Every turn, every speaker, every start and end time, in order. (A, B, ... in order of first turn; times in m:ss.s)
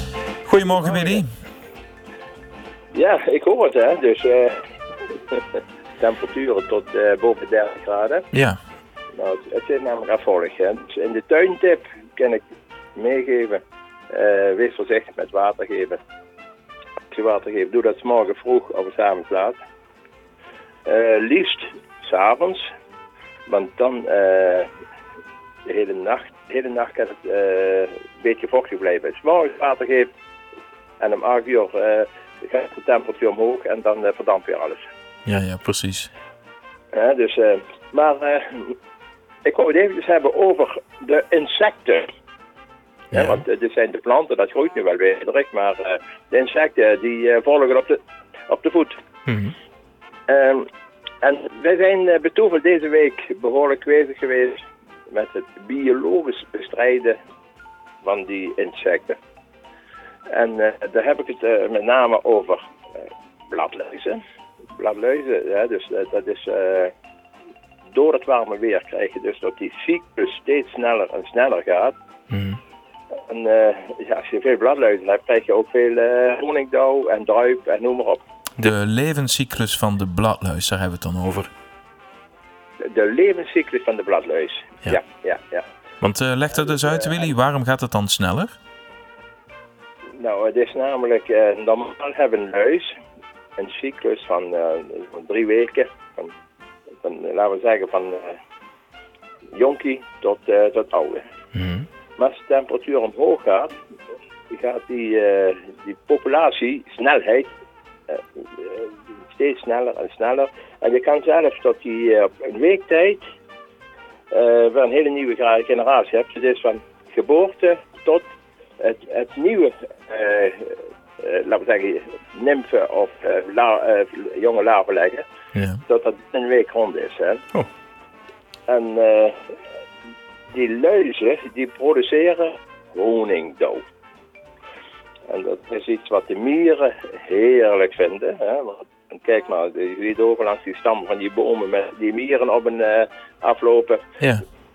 0:00.4-0:01.3 A
0:00.7-0:01.2 B
0:02.9-0:04.6 B
0:05.3-0:08.3 B
0:08.3-0:08.6 A
0:09.1-0:12.4 B
0:12.9-0:16.0 B
0:17.1-0:19.6 B
0:20.8-0:22.6 B
0:23.5-0:24.7 B
0:25.6-0:30.1 B
0:31.0-0:34.8 B
0:35.2-0:36.1 A
0:36.9-0:38.7 B
0:39.4-0:42.0 B
0:43.1-0:43.4 A
0:43.1-0:48.0 B
0:48.5-0:48.9 B
0:49.3-0:49.5 A
0:50.3-0:50.6 B
0:51.2-0:57.2 B
0:58.0-0:59.2 B
1:00.3-1:02.6 B
1:03.5-1:04.2 B
1:04.8-1:06.9 B
1:07.9-1:11.9 B
1:12.3-1:12.6 A
1:13.3-1:18.2 B
1:18.6-1:21.5 A
1:22.8-1:25.6 B
1:26.0-1:28.5 A
1:26.5-1:27.3 B
1:30.2-1:32.9 B
1:33.6-1:36.3 B
1:37.0-1:38.4 B
1:39.5-1:41.2 B
1:41.5-1:41.8 A
1:42.2-1:43.7 B
1:44.5-1:47.5 B
1:48.1-1:53.2 B
1:54.3-1:58.3 B
1:58.8-2:05.2 B
2:05.5-2:05.8 A
2:05.9-2:07.4 B
2:08.7-2:09.4 B
2:10.5-2:13.8 B
2:15.3-2:24.0 B